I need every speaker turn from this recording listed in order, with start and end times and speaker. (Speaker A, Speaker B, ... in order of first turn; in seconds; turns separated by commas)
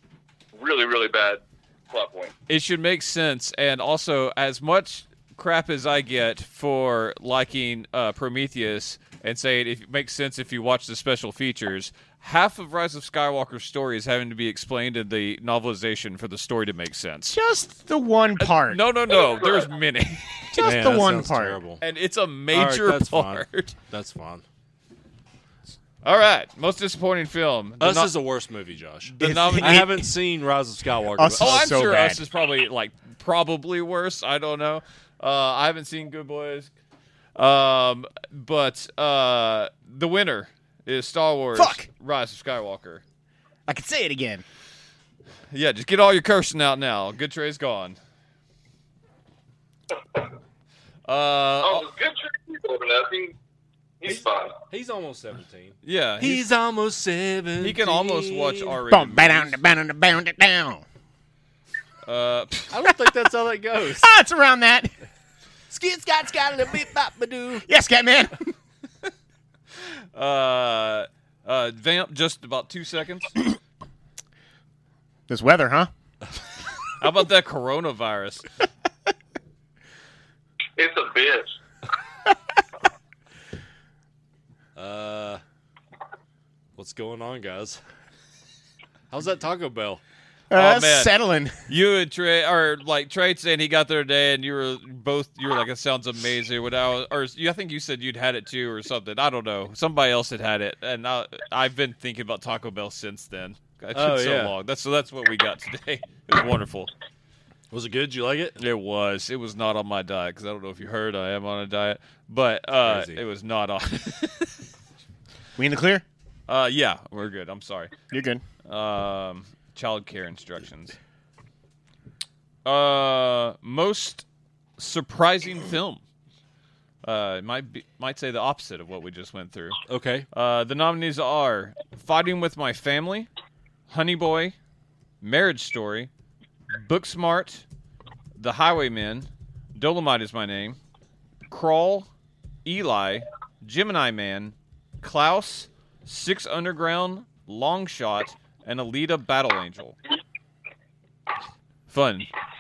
Speaker A: 0.6-2.3, Speaker B: 2.5-17.4, Speaker C: 17.3-18.8, Speaker B: 18.4-21.0, Speaker A: 19.1-19.7, Speaker C: 20.5-21.6, Speaker D: 20.6-21.8, Speaker B: 21.8-23.8, Speaker D: 22.5-24.4, Speaker B: 26.0-28.1, Speaker D: 27.8-31.7, Speaker B: 29.1-29.9, Speaker C: 29.2-30.1, Speaker C: 31.1-32.2, Speaker B: 31.4-36.7, Speaker B: 37.4-43.0, Speaker C: 41.5-41.9, Speaker C: 43.7-44.4, Speaker B: 45.5-48.0, Speaker B: 51.1-51.9, Speaker A: 51.6-53.3, Speaker A: 54.0-54.5, Speaker D: 54.1-58.8, Speaker B: 55.8-56.5, Speaker B: 57.6-59.6, Speaker C: 58.9-60.8, Speaker B: 62.1-62.8, Speaker D: 62.7-64.1, Speaker C: 64.0-64.9, Speaker D: 65.7-67.6, Speaker C: 67.6-68.5, Speaker B: 69.8-73.4, Speaker C: 75.3-75.9, Speaker B: 77.0-78.5, Speaker A: 80.8-81.5, Speaker D: 84.8-85.4, Speaker D: 86.8-87.8, Speaker D: 89.1-90.0, Speaker C: 90.5-91.6, Speaker B: 90.5-91.1, Speaker B: 91.7-106.9, Speaker D: 103.9-104.5, Speaker D: 107.7-108.6, Speaker B: 108.6-114.6, Speaker D: 112.8-113.2, Speaker C: 115.6-116.0, Speaker B: 116.5-117.9, Speaker C: 118.1-118.4, Speaker B: 118.6-121.0, Speaker B: 122.6-124.2, Speaker B: 124.8-126.0, Speaker B: 127.0-129.8, Speaker D: 129.9-130.3, Speaker B: 130.3-133.3, Speaker B: 133.9-134.6, Speaker B: 135.2-136.1, Speaker B: 136.7-137.6, Speaker B: 138.4-140.8, Speaker B: 141.5-142.1, Speaker B: 142.6-149.9, Speaker B: 151.9-152.3